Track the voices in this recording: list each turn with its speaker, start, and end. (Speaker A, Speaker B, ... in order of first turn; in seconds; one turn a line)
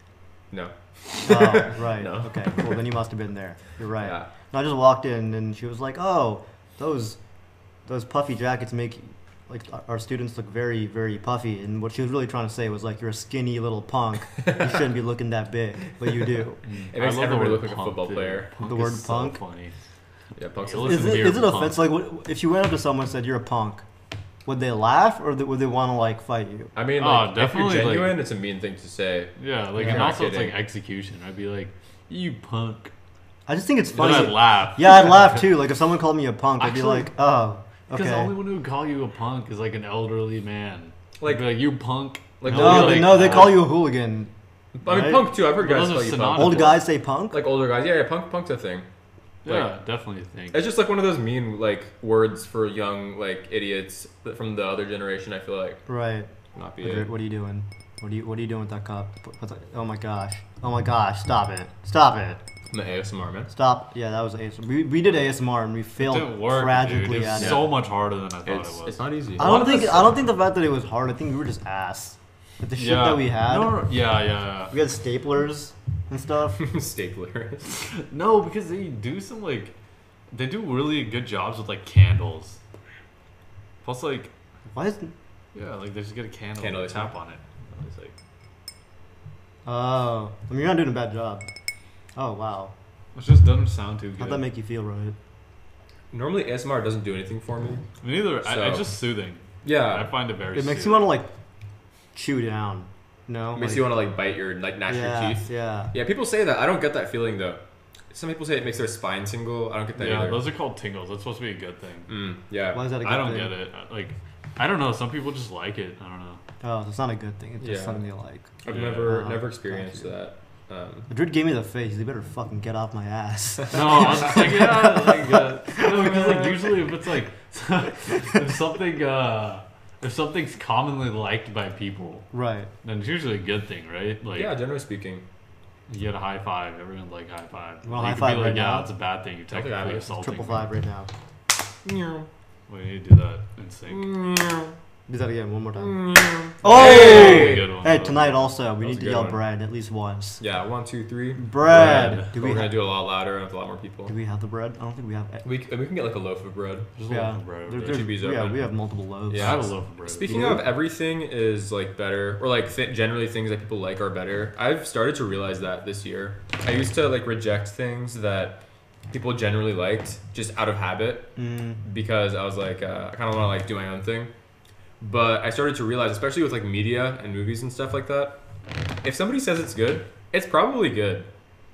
Speaker A: 0.5-2.8
Speaker B: 1.2-7.2
Speaker A: 4.0-4.3
Speaker B: 7.9-16.6
Speaker A: 14.4-14.7
Speaker C: 16.6-19.8
Speaker A: 16.9-18.5
Speaker B: 18.6-19.4
Speaker A: 20.4-21.3
Speaker C: 20.6-21.9
Speaker B: 20.8-23.8
Speaker B: 24.5-26.7
Speaker A: 26.8-30.6
Speaker C: 27.0-28.2
Speaker C: 29.4-32.9
Speaker B: 29.8-30.1
Speaker B: 33.5-38.3
Speaker C: 33.9-35.6
Speaker C: 36.6-37.1
Speaker C: 37.9-43.7
Speaker A: 41.2-41.7
Speaker A: 42.4-43.6
Speaker B: 42.5-44.3
Speaker A: 44.8-48.9
Speaker B: 44.9-45.3
Speaker C: 45.5-46.8
Speaker B: 46.4-47.4
Speaker C: 49.5-50.7
Speaker A: 50.5-55.8
Speaker B: 55.9-56.3
Speaker A: 56.5-57.1
Speaker B: 56.8-62.4
Speaker A: 62.7-63.5
Speaker B: 63.5-67.6
Speaker C: 66.0-70.1
Speaker A: 67.3-67.7
Speaker A: 68.5-70.0
Speaker B: 69.4-73.8
Speaker C: 72.8-74.8
Speaker B: 74.7-76.6
Speaker A: 76.6-77.7
Speaker C: 77.9-79.8
Speaker C: 80.3-82.6
Speaker C: 83.8-84.3
Speaker B: 84.7-85.1
Speaker C: 85.5-88.1
Speaker A: 86.6-87.1
Speaker B: 89.7-91.5
Speaker B: 92.2-92.7
Speaker C: 93.2-94.4
Speaker B: 94.2-95.2
Speaker A: 96.1-97.9
Speaker C: 98.0-101.2
Speaker A: 98.4-98.9
Speaker A: 99.6-100.1
Speaker B: 100.5-101.3
Speaker B: 102.1-104.0
Speaker A: 103.5-107.6
Speaker B: 104.9-105.9
Speaker A: 108.1-110.5
Speaker C: 110.0-112.1
Speaker A: 112.1-112.8
Speaker B: 112.7-113.5
Speaker C: 113.0-116.4
Speaker B: 116.6-120.1
Speaker A: 117.6-118.0
Speaker A: 118.6-121.1
Speaker C: 118.7-119.1
Speaker B: 121.1-126.5
Speaker C: 123.7-132.3
Speaker B: 132.3-132.7
Speaker C: 132.8-134.5
Speaker A: 134.3-135.2
Speaker C: 135.9-140.7
Speaker B: 137.8-138.9
Speaker A: 139.5-140.1
Speaker B: 140.2-141.1
Speaker A: 141.8-142.3
Speaker C: 142.7-144.1
Speaker A: 143.9-144.8
Speaker B: 145.1-146.0
Speaker A: 145.8-147.7
Speaker B: 146.6-150.4
Speaker C: 146.7-149.3
Speaker A: 148.9-149.4
Speaker A: 150.4-154.1
Speaker B: 151.4-152.8
Speaker C: 151.7-152.3
Speaker B: 154.1-155.4
Speaker A: 155.4-156.9
Speaker C: 156.9-158.0
Speaker B: 157.1-159.7
Speaker A: 157.8-158.7
Speaker A: 159.3-174.3
Speaker C: 159.3-160.6
Speaker B: 160.2-160.7
Speaker B: 171.4-171.8
Speaker A: 175.0-178.4
Speaker A: 179.0-181.3